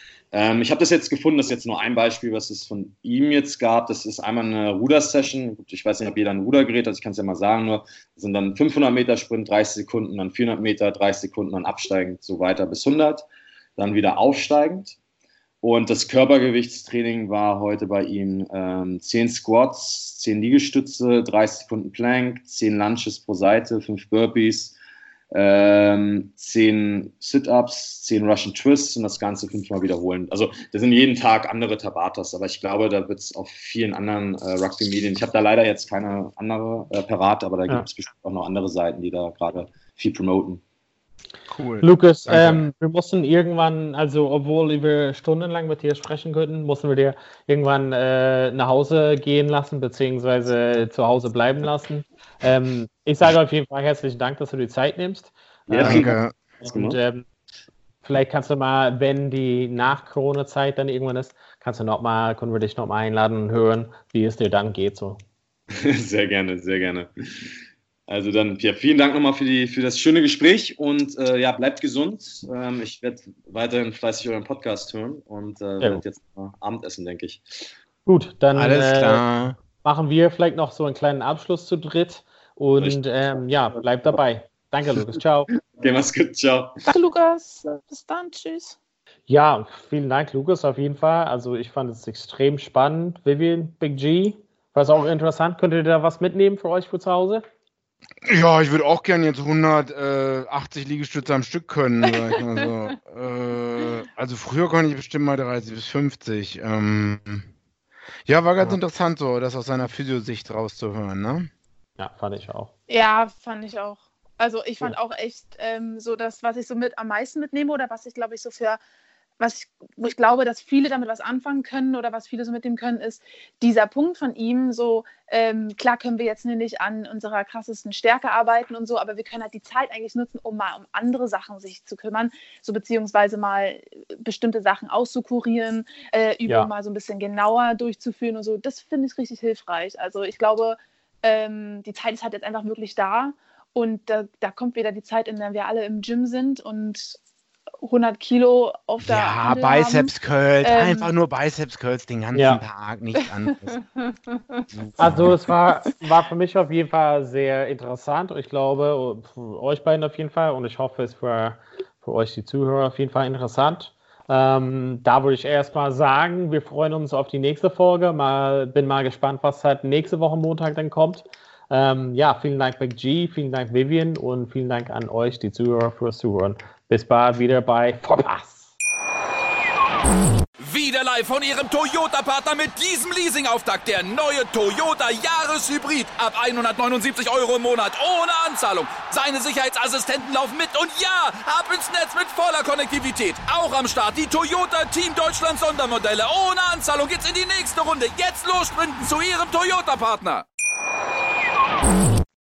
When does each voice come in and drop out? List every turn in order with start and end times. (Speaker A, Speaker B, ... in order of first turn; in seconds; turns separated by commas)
Speaker A: 0.3-13.2, Speaker A: 13.8-15.0, Speaker A: 15.6-24.8, Speaker A: 25.3-40.6, Speaker B: 41.5-42.6, Speaker C: 41.8-56.1, Speaker A: 55.7-57.0, Speaker B: 55.8-56.3, Speaker C: 56.6-57.2, Speaker C: 58.0-65.2, Speaker A: 65.7-67.5, Speaker A: 68.1-77.4, Speaker C: 78.0-79.2, Speaker B: 78.5-79.6, Speaker C: 79.8-85.5, Speaker A: 85.7-86.7, Speaker D: 86.9-88.8, Speaker C: 89.3-97.4, Speaker B: 98.2-107.5, Speaker B: 108.2-111.5, Speaker C: 112.0-112.7, Speaker D: 112.9-118.8, Speaker D: 119.4-147.2, Speaker C: 136.4-136.7, Speaker D: 147.8-150.1, Speaker B: 149.0-153.8, Speaker D: 150.6-151.1, Speaker C: 152.3-152.6, Speaker D: 153.8-154.6, Speaker B: 154.7-155.3, Speaker C: 155.0-178.7, Speaker E: 180.6-200.4